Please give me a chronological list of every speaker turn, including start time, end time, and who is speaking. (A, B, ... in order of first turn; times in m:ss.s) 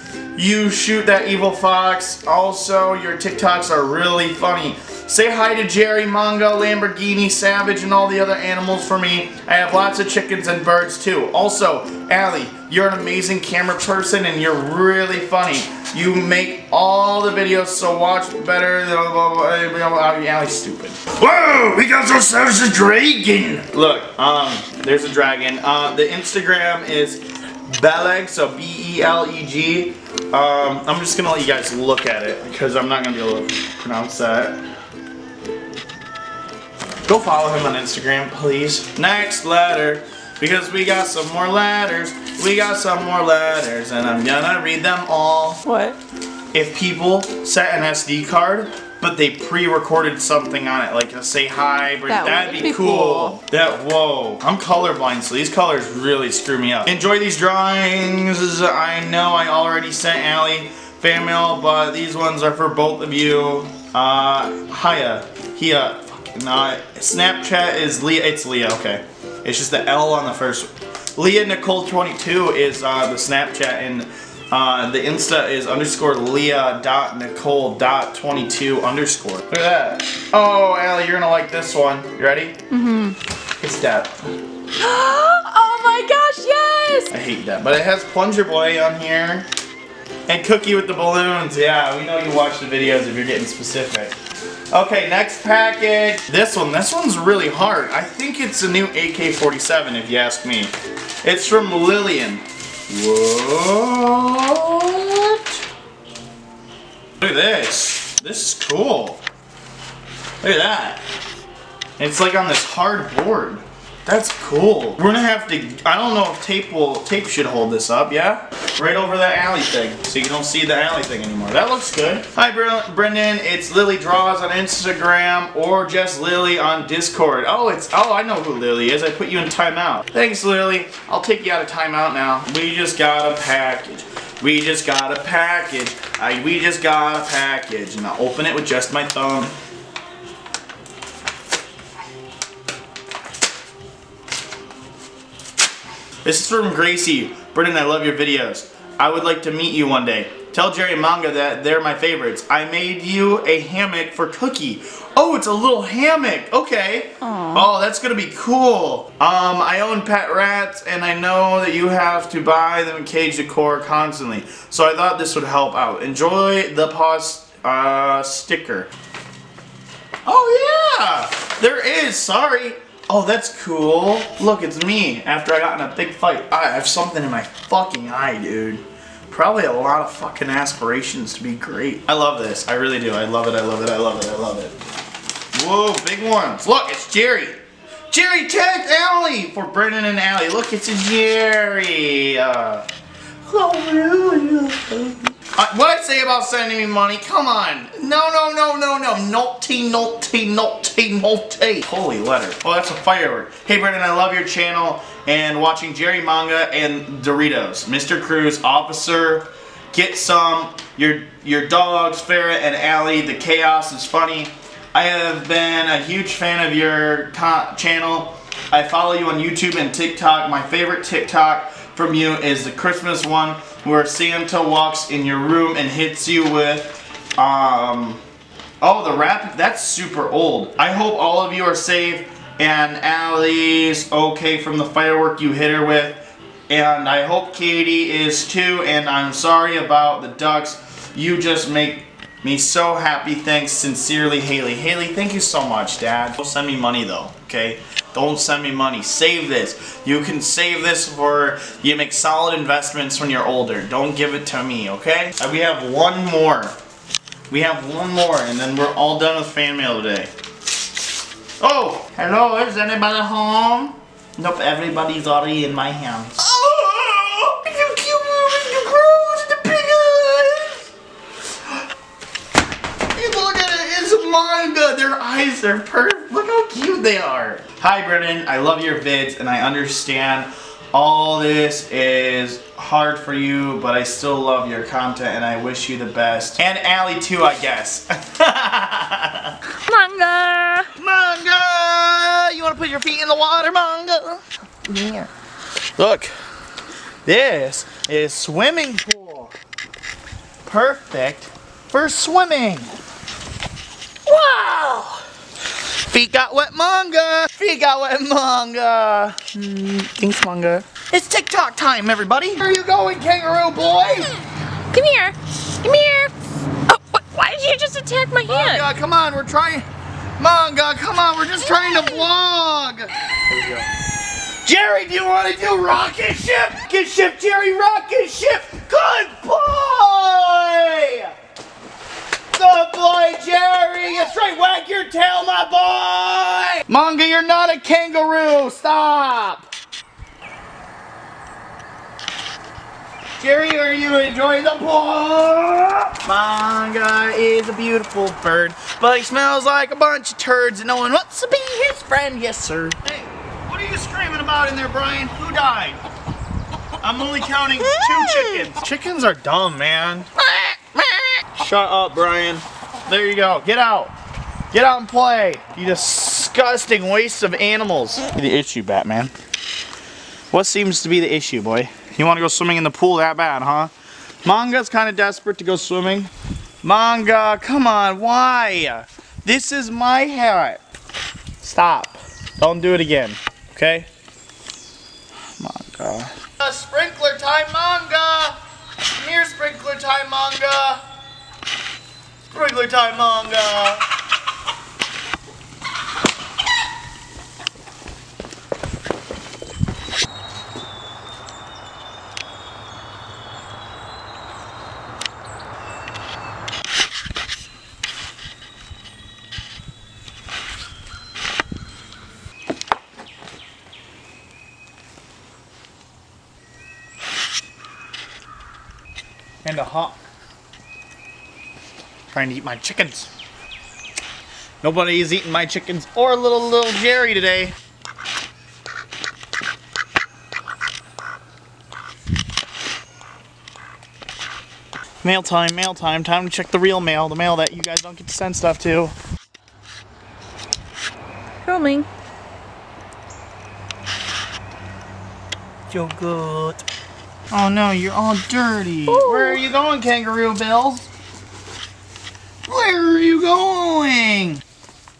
0:00.3-0:34.6 A
0:37.0-0:45.6 A
0:45.6-0:46.0 B
0:46.5-1:22.6 A
0:52.1-0:53.3 B
1:22.7-1:23.2 B
1:23.6-1:24.2 A
1:24.8-1:27.1 B
1:27.1-1:29.5 A
1:30.3-1:34.2 A
1:34.7-1:45.6 A
1:47.2-1:49.2 A
1:50.4-1:51.0 A
1:52.0-2:19.5 A
2:26.2-2:48.9 A
2:37.2-2:37.7 B
2:50.2-3:04.8 A
3:05.5-3:07.6 A
3:08.1-3:12.8 A
3:13.4-3:48.2 A
3:48.8-4:16.8 A
4:17.5-4:20.3 A
4:21.6-4:30.9 A
4:33.1-4:49.6 A
4:49.8-4:50.9 B
4:51.0-4:55.3 A
4:56.0-4:56.3 A
4:57.2-4:59.5 A
5:00.6-5:02.9 A
5:04.2-5:05.2 A
5:06.0-5:14.4 A
5:14.9-5:16.3 B
5:16.9-5:18.8 B
5:18.5-5:19.8 A
5:20.4-5:23.9 A
5:21.6-5:22.2 B
5:24.6-5:31.3 A
5:32.5-5:39.7 A
5:43.4-5:56.0 A
5:57.0-6:04.1 A
6:04.7-6:09.3 A
6:10.5-6:13.9 A
6:14.4-6:16.3 A
6:16.8-6:20.8 A
6:21.6-6:24.1 A
6:25.6-6:28.6 A
6:29.2-6:31.0 A
6:32.5-6:34.0 A
6:59.6-7:00.2 A
7:02.3-7:03.3 A
7:04.8-7:07.8 A
7:15.2-7:19.1 A
7:21.6-7:22.1 B
7:25.9-7:26.8 A
7:27.5-7:31.1 A
7:29.1-7:29.6 B
7:32.6-7:34.6 A